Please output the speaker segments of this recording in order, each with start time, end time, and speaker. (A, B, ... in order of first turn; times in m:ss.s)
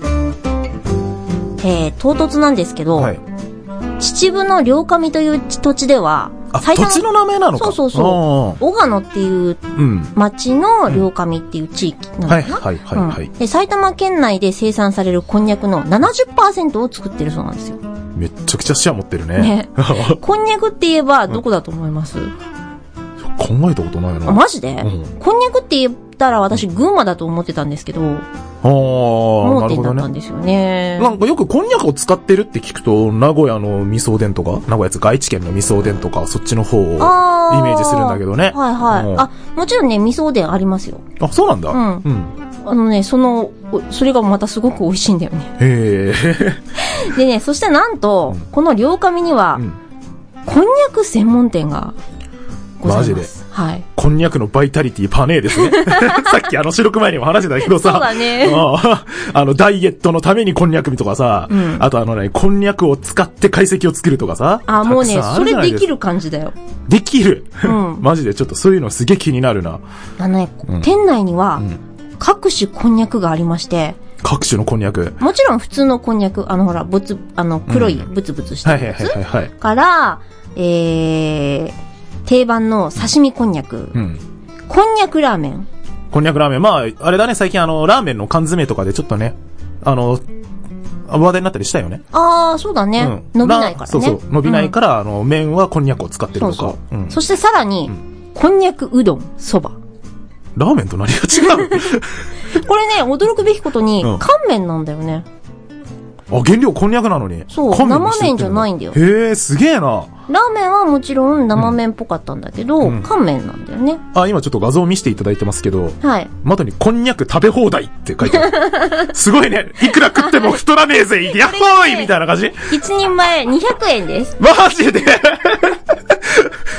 0:01.6-0:03.1 A
0:04.0-0:07.0 A
0:06.5-0:08.6 B
0:07.6-0:17.8 A
0:09.8-0:10.1 B
0:12.3-0:13.3 B
0:18.2-0:20.2 B
0:19.4-0:22.3 A
0:23.2-0:25.1 B
0:24.3-0:28.2 A
0:28.6-0:30.1 B
0:29.4-0:31.2 A
0:31.0-0:39.3 B
0:37.0-0:41.0 A
0:41.2-0:42.3 B
0:41.7-0:42.1 A
0:42.6-0:45.5 A
0:45.6-0:46.6 B
0:46.8-0:49.6 A
0:50.4-0:52.0 A
0:52.8-0:53.9 A
0:52.8-0:53.3 B
0:54.0-1:05.9 B
0:55.7-0:56.2 A
0:57.6-0:58.7 A
1:01.5-1:01.9 A
1:04.7-1:06.6 A
1:06.9-1:09.8 B
1:07.6-1:08.1 A
1:10.2-1:11.6 A
1:12.2-1:14.0 A
1:14.2-1:15.2 B
1:15.2-1:21.7 A
1:17.7-1:18.1 B
1:18.6-1:19.5 B
1:22.3-1:24.0 A
1:23.9-1:24.2 B
1:24.7-1:25.7 A
1:26.1-1:30.3 B
1:31.1-1:32.0 B
1:32.1-1:34.7 A
1:33.0-1:37.2 B
1:36.4-1:39.8 A
1:40.6-1:42.2 B
1:42.5-1:45.2 A
1:44.0-1:44.3 B
1:46.3-1:50.1 B
1:47.5-1:49.0 A
1:50.3-1:54.0 A
1:52.8-1:53.1 B
1:54.1-2:02.7 B
1:56.0-1:56.3 A
1:58.4-1:59.1 A
2:01.3-2:02.1 A
2:02.7-2:04.4 A
2:04.4-2:06.5 B